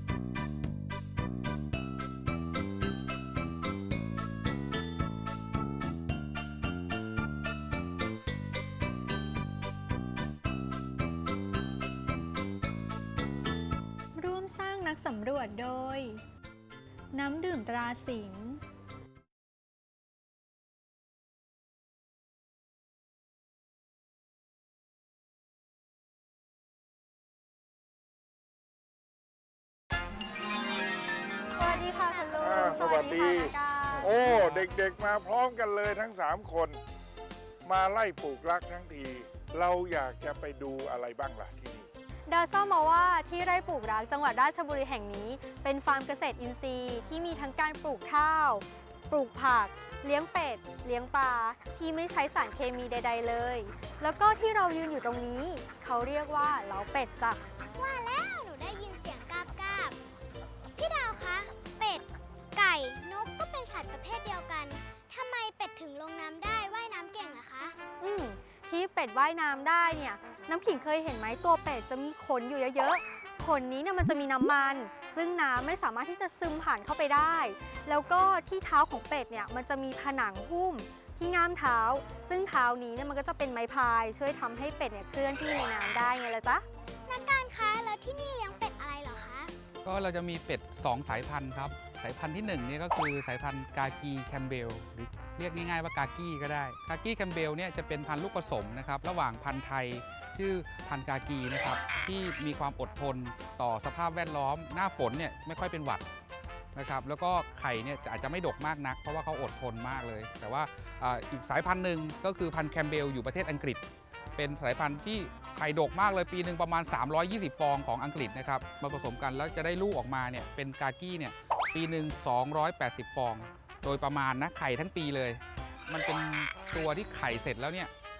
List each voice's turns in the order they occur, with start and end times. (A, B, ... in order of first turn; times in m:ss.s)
0:14.1-0:16.2 A
0:17.1-0:18.6 A
0:31.6-0:34.1 A
0:32.2-0:32.6 B
0:32.4-0:36.8 C
0:34.0-0:34.7 D
0:37.6-0:41.9 C
0:42.3-0:57.4 A
0:57.7-1:00.0 B
1:00.8-1:07.8 B
1:08.0-1:26.6 A
1:27.0-1:29.5 B
1:29.8-1:46.0 D
1:46.7-1:53.8 D
1:54.4-2:07.9 D